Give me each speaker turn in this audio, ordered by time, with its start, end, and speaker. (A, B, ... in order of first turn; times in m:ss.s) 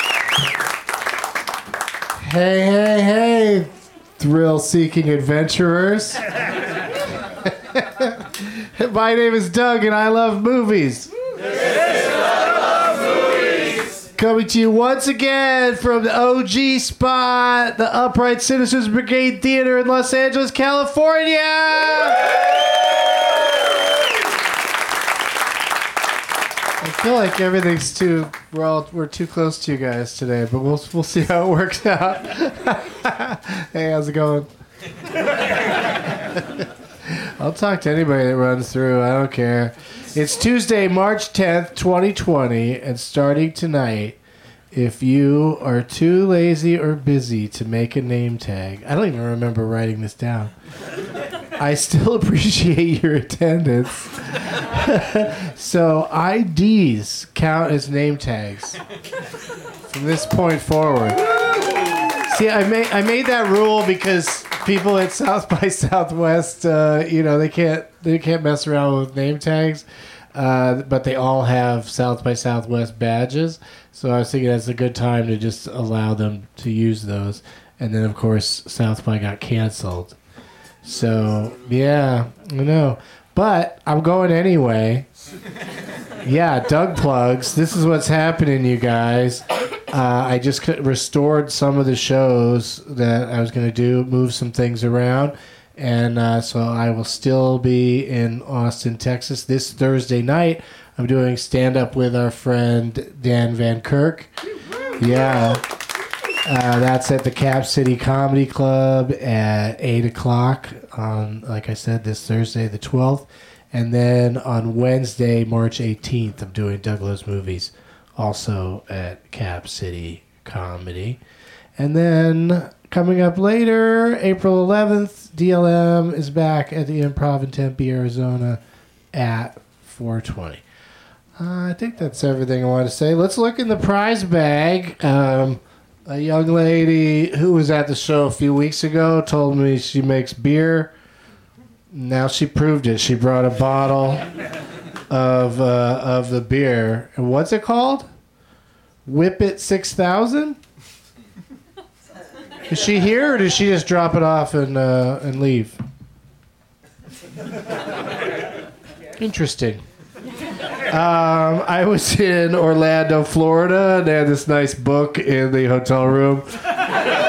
0:02.2-0:06.2 A
0:07.4-0:11.1 A
0:14.2-0:22.3 A
0:26.8-0:34.5 A
0:37.0-0:44.2 A
0:44.7-0:50.5 A
0:51.6-0:58.8 A
0:59.9-1:01.3 A
1:02.2-1:20.2 A
1:20.8-1:25.1 A
1:26.2-1:44.3 A
1:45.0-1:45.6 A
1:46.4-2:01.2 A
2:01.8-2:08.6 A
2:09.1-2:10.6 A
2:11.4-2:20.9 A
2:21.9-2:24.2 A
2:25.1-2:28.1 A
2:29.0-2:30.6 A
2:32.7-2:35.8 A
2:39.2-2:39.8 A
2:40.9-2:46.6 A